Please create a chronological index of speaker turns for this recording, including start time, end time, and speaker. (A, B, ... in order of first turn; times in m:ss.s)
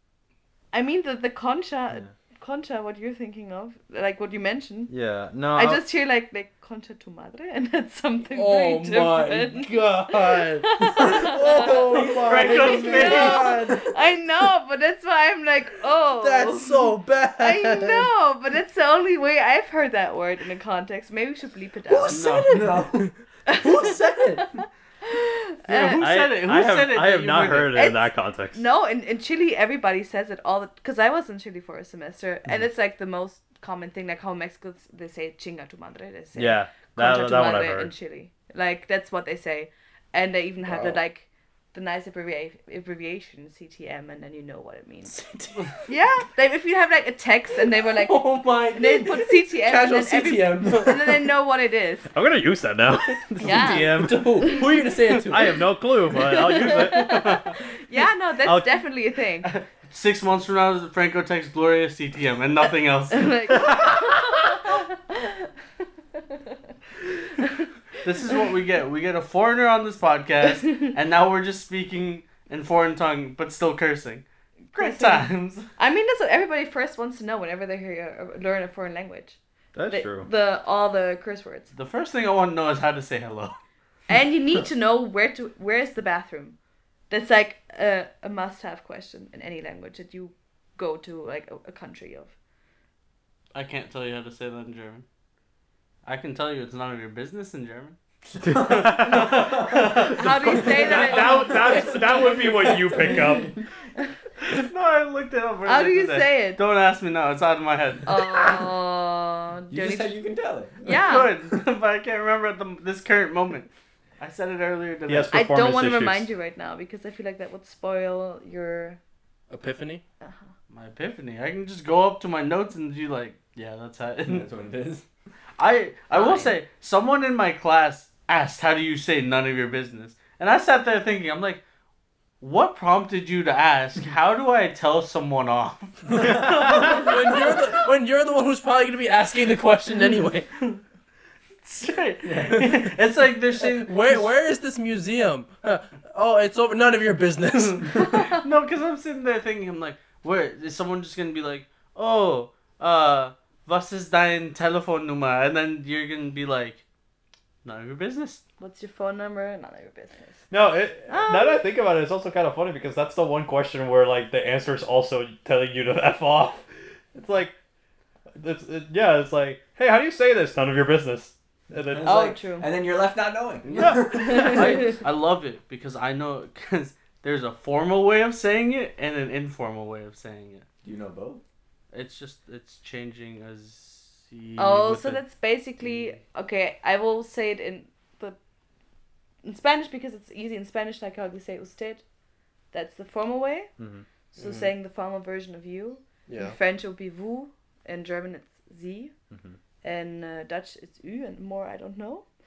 0:00.7-0:04.9 A
0:04.9-0:05.8 B
0:05.5-0:22.3 A
0:08.3-0:13.9 C
0:11.9-0:13.6 D
0:16.1-0:18.1 C
0:21.9-0:24.5 C
0:22.1-0:22.7 D
0:22.5-0:23.1 E
0:23.5-0:26.1 A
0:25.7-0:27.8 D
0:26.0-0:28.6 B
0:27.7-0:45.2 A
0:36.4-0:37.9 B
0:40.7-0:41.0 C
0:45.1-0:45.8 C
0:45.9-0:52.1 A
0:48.0-0:51.3 C
0:52.1-0:54.6 B
0:53.3-0:55.6 C
0:53.4-0:54.7 A
0:55.3-0:57.4 B
0:56.1-0:59.5 A
0:56.4-0:57.6 D
0:58.4-0:58.8 B
0:59.4-1:03.6 D
1:03.1-1:05.5 A
1:03.6-1:04.0 B
1:07.4-1:07.7 A
1:08.0-1:15.7 D
1:14.7-1:21.7 A
1:19.8-1:20.3 B
1:21.7-1:23.6 D
1:24.1-1:26.6 A
1:27.1-1:32.3 A
1:33.5-1:35.0 D
1:36.0-1:38.0 D
1:38.4-1:40.0 E
1:38.4-1:43.6 B
1:38.6-1:40.1 D
1:40.1-1:42.0 A
1:40.7-1:41.5 E
1:42.5-1:43.6 E
1:44.5-1:48.5 D
1:45.7-1:46.6 A
1:48.0-1:50.2 A
1:49.7-1:51.2 E
1:50.8-1:51.3 A
1:50.9-1:55.3 D
1:55.1-1:56.3 B
1:55.3-1:59.0 A
1:59.5-2:00.0 C
2:00.7-2:04.5 D
2:04.3-2:05.0 E
2:05.6-2:11.6 D
2:06.1-2:06.6 A
2:12.4-2:17.6 D
2:16.2-2:16.9 B
2:16.2-2:20.5 C
2:21.6-2:24.3 D
2:22.2-2:22.8 E
2:23.6-2:28.3 C
2:28.3-2:36.8 D
2:37.6-2:38.4 D
2:38.6-2:40.4 A
2:40.5-2:47.5 B
2:41.1-2:41.6 A
2:48.4-2:52.3 B
2:51.9-2:54.8 E
2:52.0-2:52.7 A
2:53.7-3:00.6 D
2:53.7-2:54.9 B
2:54.1-2:54.9 A
3:00.8-3:01.4 E
3:01.9-3:05.2 D
3:04.6-3:08.4 A
3:09.4-3:12.0 A
3:12.7-3:13.7 A
3:13.8-3:14.0 B
3:14.3-3:19.1 A
3:14.4-3:14.7 C
3:16.3-3:16.6 C
3:19.8-3:22.2 A